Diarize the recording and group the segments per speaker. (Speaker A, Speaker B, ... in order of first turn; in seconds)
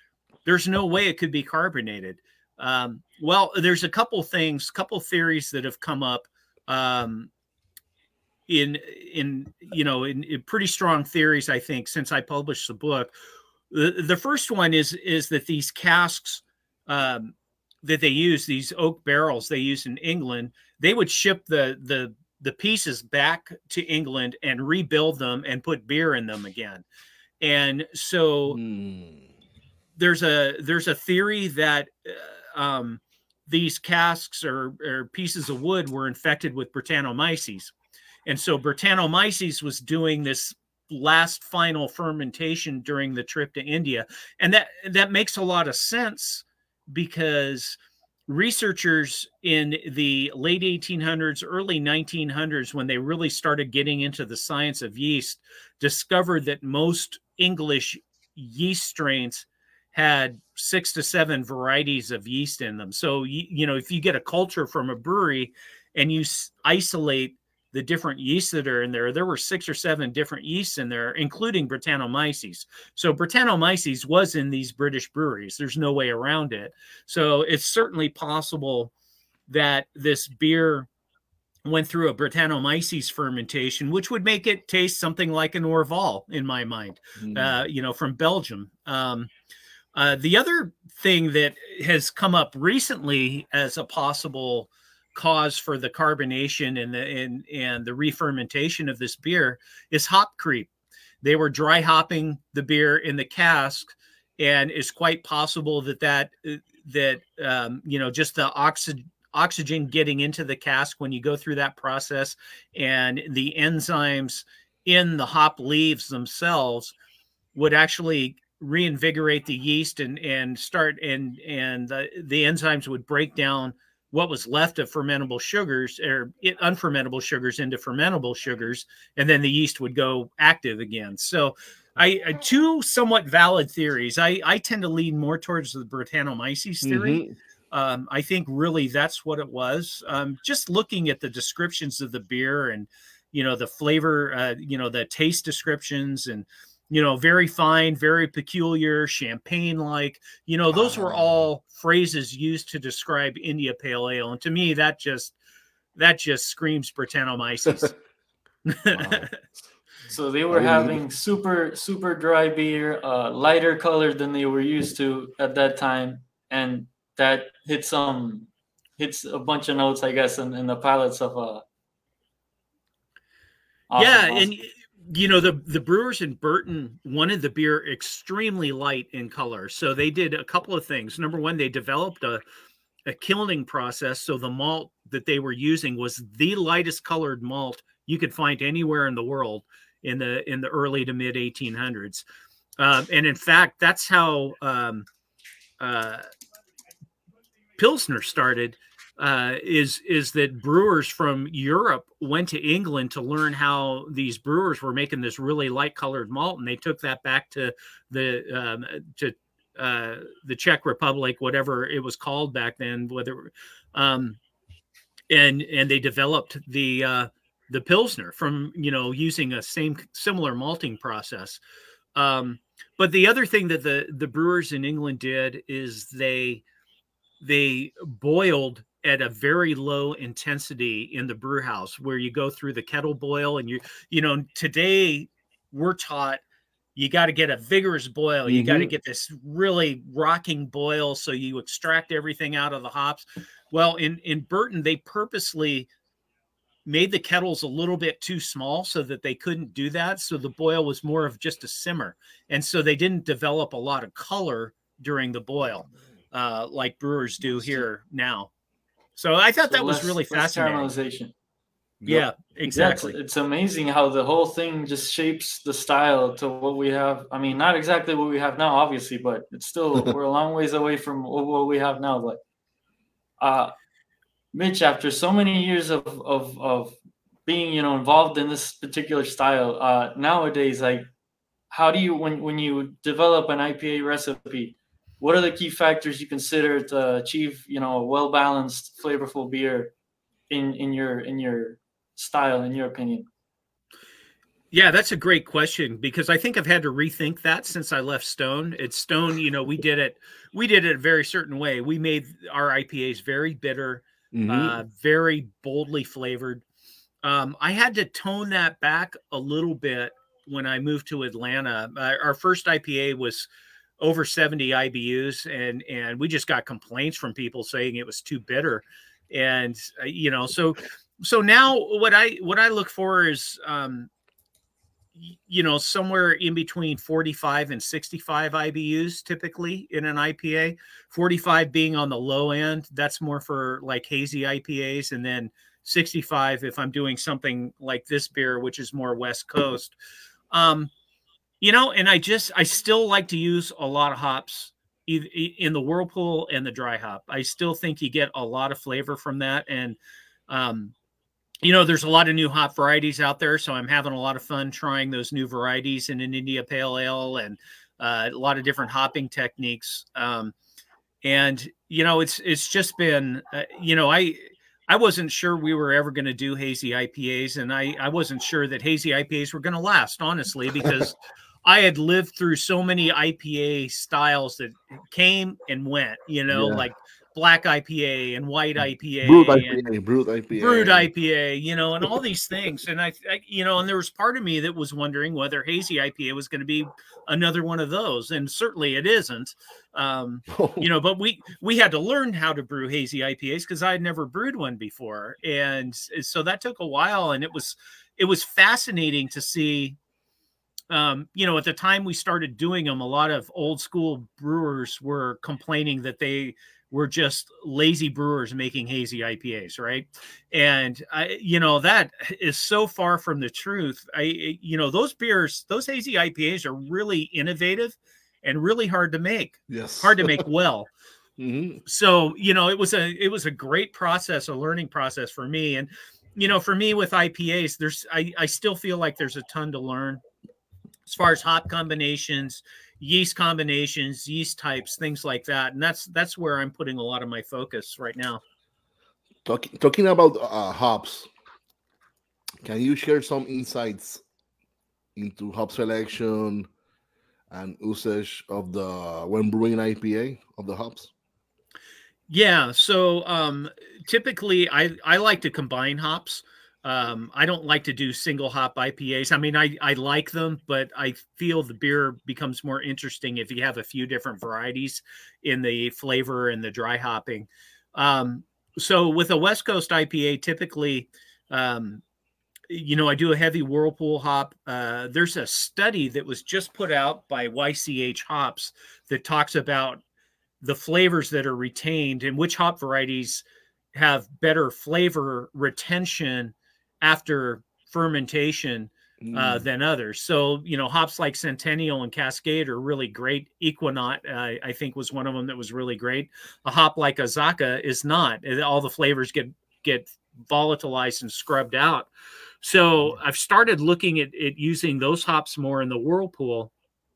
Speaker A: 0.4-7.3, 8.5-13.1, 13.7-26.8, 27.4-28.6, 30.0-37.7, 38.2-78.9, 79.5-80.9, 81.6-89.3, 89.9-100.7, 101.2-116.9, 117.5-155.3, 155.9-157.9, 158.7-159.3, 173.9-182.4, 183.1-192.2, 192.8-195.1, 195.8-196.2, 197.8-214.4, 215.3-221.6, 222.2-226.6, 227.4-236.4, 236.9-245.9, 246.8-258.5, 259.1-260.9, 262.1-263.1, 294.7-306.6, 307.2-313.5, 314.0-324.1, 325.1-339.9, 340.5-340.9, 341.6-350.0, 350.5-350.9, 351.6-360.5, 361.2-379.8, 380.5-400.0, 400.9-420.9, 421.9-430.2, 431.1-438.4, 452.3-472.0, 472.7-480.0, 480.6-502.1, 502.6-506.7
Speaker B: 28.5-29.3, 87.2-87.5, 136.8-137.3, 150.7-151.4, 158.9-159.5, 160.5-161.0, 238.4-238.9, 262.0-262.2, 304.3-304.8, 376.5-376.8, 379.2-381.1, 390.5-390.9, 419.7-420.4, 421.4-421.8, 439.4-441.3, 442.6-444.2, 445.1-446.7, 447.5-451.1, 489.2-489.6
Speaker C: 160.1-171.6, 173.9-174.5, 259.7-261.3, 262.7-272.4, 273.4-273.7, 274.5-281.0, 281.7-289.9, 290.5-293.3